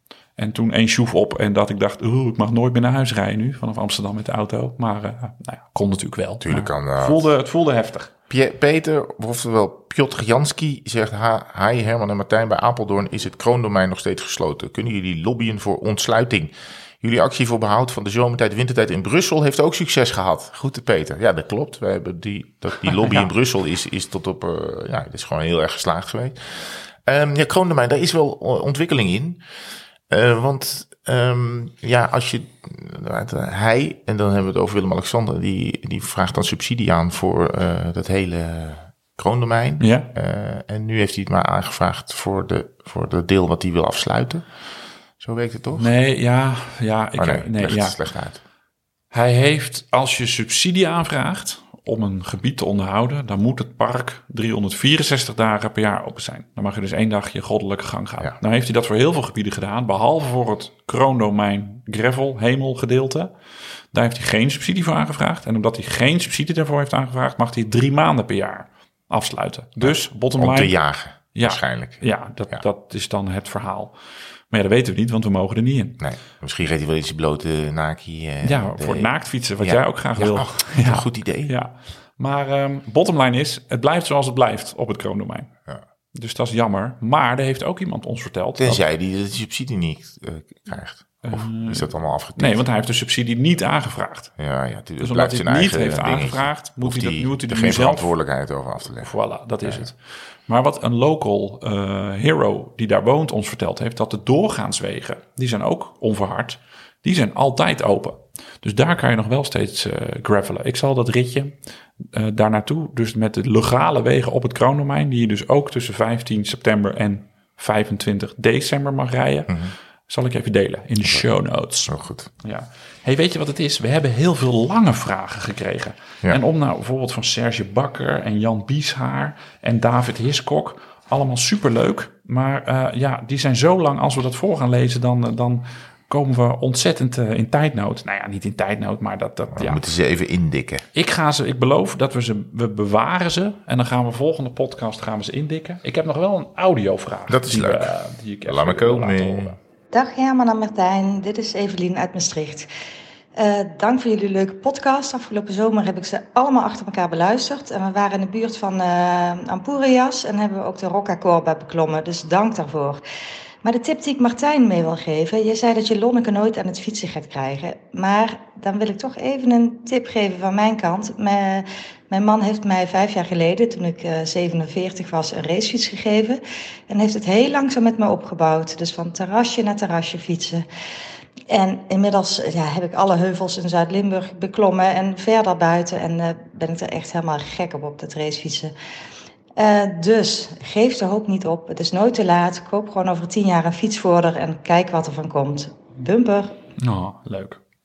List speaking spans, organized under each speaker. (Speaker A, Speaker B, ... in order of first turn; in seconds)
Speaker A: 0.4-8.1, 39.8-40.1, 45.7-48.0, 49.1-63.3, 63.9-70.7, 71.3-74.0, 74.5-76.0, 78.4-85.5, 86.1-88.8, 91.2-94.3, 95.0-98.1, 99.0-139.8, 140.9-149.6, 196.8-197.6
Speaker B: 6.4-7.2, 8.3-29.4, 30.1-44.5, 45.2-45.9, 47.2-48.4, 69.8-72.6, 76.0-81.5, 88.6-92.6, 94.4-99.1, 119.5-119.7, 121.9-122.3, 139.5-140.8, 147.3-149.5
Speaker C: 149.9-152.7, 153.3-163.0, 163.6-180.7, 181.5-188.7, 189.6-196.6